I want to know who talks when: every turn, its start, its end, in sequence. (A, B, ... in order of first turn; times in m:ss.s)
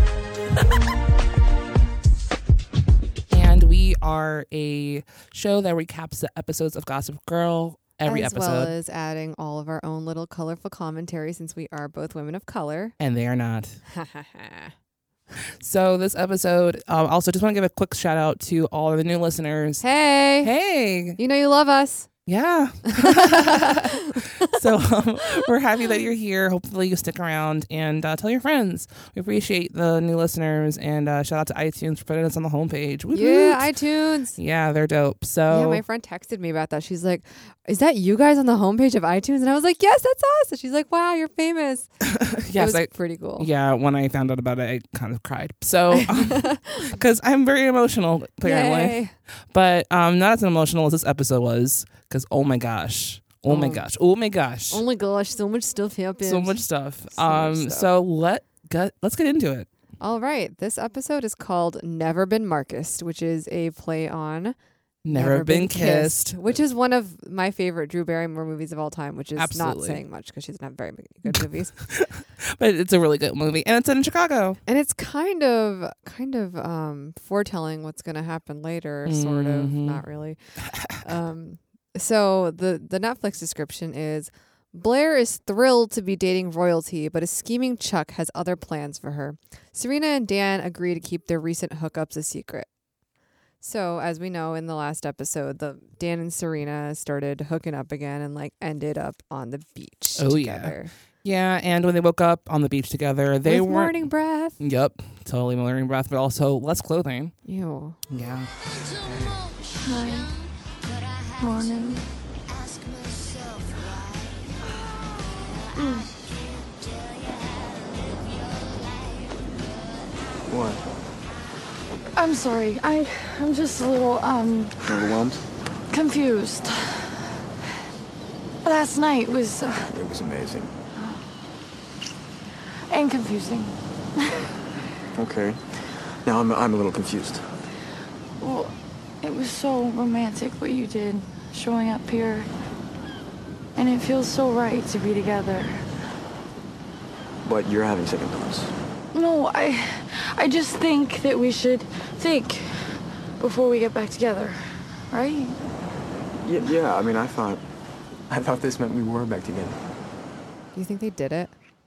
0:03.3-0:08.7 A
0:08.0-0:12.9 B
0:13.0-0:13.8 A
0:13.9-0:14.7 B
0:15.6-0:19.8 A
0:19.8-0:20.5 B
0:20.4-0:21.2 A
0:21.2-0:22.1 B
0:22.3-0:33.7 A
0:22.9-0:24.6 B
0:33.1-0:34.4 B
0:34.4-0:35.8 A
0:35.5-0:41.9 B
0:42.0-0:49.0 A
0:42.5-0:43.5 B
0:45.9-0:47.0 B
0:48.4-0:49.1 B
0:49.5-0:54.8 A
0:53.5-0:53.8 B
0:54.7-0:57.9 B
0:56.2-0:59.7 A
1:00.0-1:04.5 B
1:05.0-1:06.6 A
1:05.1-1:11.7 B
1:09.4-1:10.0 A
1:11.8-1:14.6 A
1:14.6-1:20.4 B
1:19.0-1:20.0 A
1:20.7-1:21.0 A
1:21.0-1:32.7 B
1:33.6-1:40.9 B
1:40.2-1:44.1 A
1:43.4-1:44.6 B
1:44.6-1:47.3 A
1:47.4-1:48.0 B
1:48.1-1:49.4 A
1:49.8-1:50.4 C
1:51.4-1:52.0 C
1:55.7-1:56.1 C
2:00.5-2:00.8 D
2:02.2-2:04.8 C
2:04.8-2:05.4 D
2:05.9-2:07.2 C
2:08.6-2:09.9 C
2:09.9-2:10.7 D
2:12.9-2:14.5 C
2:15.2-2:15.6 D
2:16.2-2:17.4 D
2:18.4-2:22.5 C
2:23.8-2:25.8 C
2:27.4-2:28.7 D
2:29.1-2:34.6 C
2:35.1-2:35.6 C
2:36.4-2:37.6 D
2:38.3-2:39.8 D
2:40.7-2:41.5 B